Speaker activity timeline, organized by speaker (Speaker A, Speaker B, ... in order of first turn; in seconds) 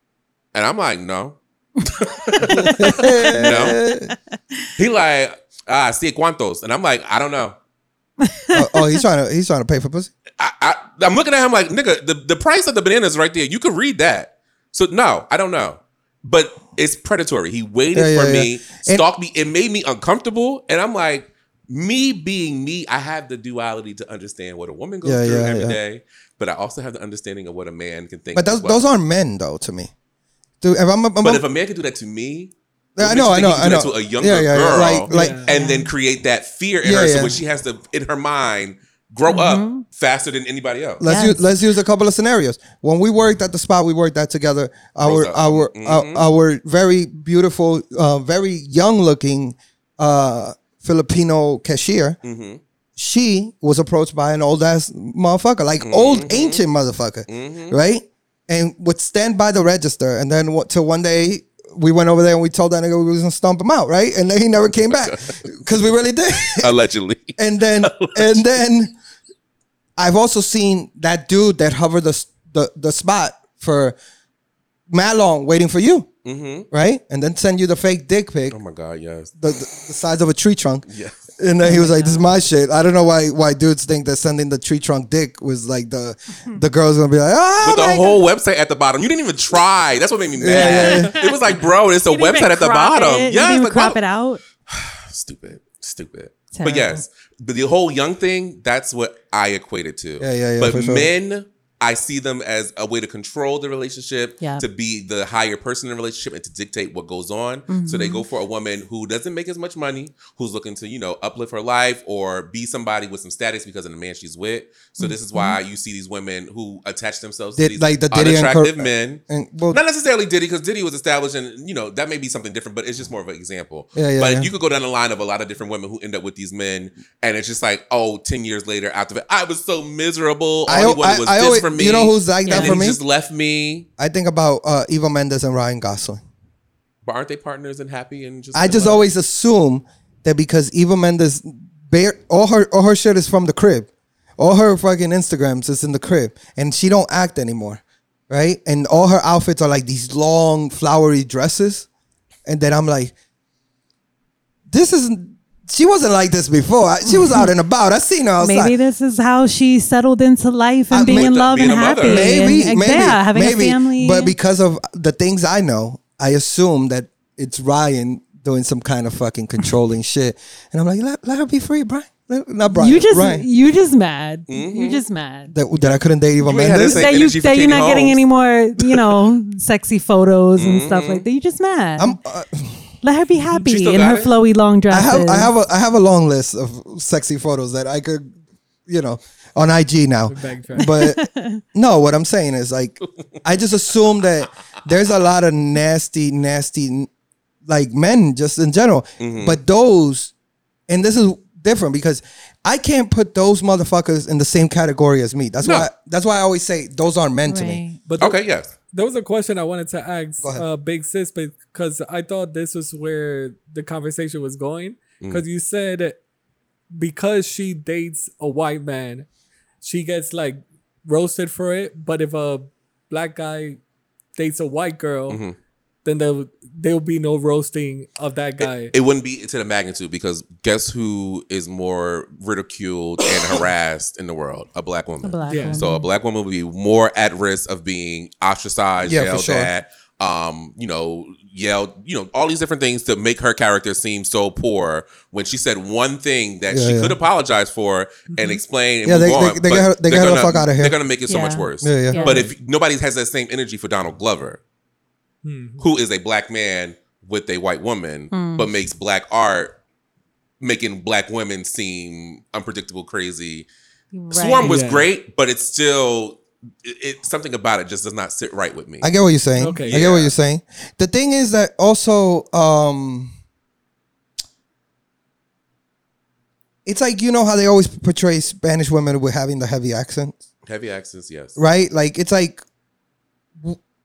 Speaker A: 0.5-3.8, 4.8-7.5, 10.4-28.9, 31.2-41.0, 45.0-46.2, 52.2-52.6, 55.8-56.6, 57.3-57.8, 64.9-65.4, 66.5-68.4, 76.2-76.7, 78.5-79.3, 80.9-81.2, 87.6-94.0, 94.7-133.9, 137.0-139.1, 161.1-162.6, 174.5-175.0, 175.8-178.2, 178.8-179.1, 180.6-181.2, 183.5-184.3, 199.2-199.6, 205.6-205.9, 208.2-208.7, 225.3-225.6, 228.6-254.6, 255.8-259.8, 260.6-263.7, 264.3-269.1, 269.8-270.3, 280.6-281.6
Speaker B: 2.3-4.1, 8.2-9.0, 35.5-35.9, 39.3-39.8, 41.0-41.4, 81.6-82.2, 90.5-91.4, 92.0-94.4, 96.5-97.0, 107.7-108.2, 115.0-115.6, 132.4-132.8, 157.1-157.5, 158.4-164.3, 172.7-175.5, 176.7-182.2, 183.0-185.5, 190.8-191.6, 207.5-208.0, 235.2-236.1, 251.3-252.5, 258.3-258.7, 264.1-264.7
Speaker C: 2.5-4.1, 8.5-10.1, 17.9-19.0, 25.0-25.8, 28.3-29.9, 30.6-31.4, 33.0-35.5, 36.8-37.4, 41.0-52.2, 53.0-66.7, 67.4-68.9, 70.0-74.0, 74.9-76.1, 76.7-78.6, 79.4-80.8, 81.4-88.2, 90.4-91.1, 100.2-101.1, 117.5-119.8, 124.0-124.5, 130.7-133.0, 134.0-136.2, 138.5-151.9, 152.4-153.1, 154.7-158.7, 160.9-161.3, 161.9-173.4, 175.5-177.1, 182.0-182.8, 184.9-188.3, 188.9-197.1, 197.7-200.3, 200.9-207.8, 239.0-239.7, 246.7-247.2, 249.0-251.0, 251.8-252.3, 269.0-273.3, 276.9-280.4, 281.6-282.6
Speaker D: 35.1-35.5, 190.3-190.9, 208.1-208.4, 208.9-216.2, 216.9-219.3, 219.8-223.8, 224.4-225.4, 226.0-228.9, 235.5-235.8, 248.3-248.6, 255.4-255.8, 264.6-265.1, 269.6-270.0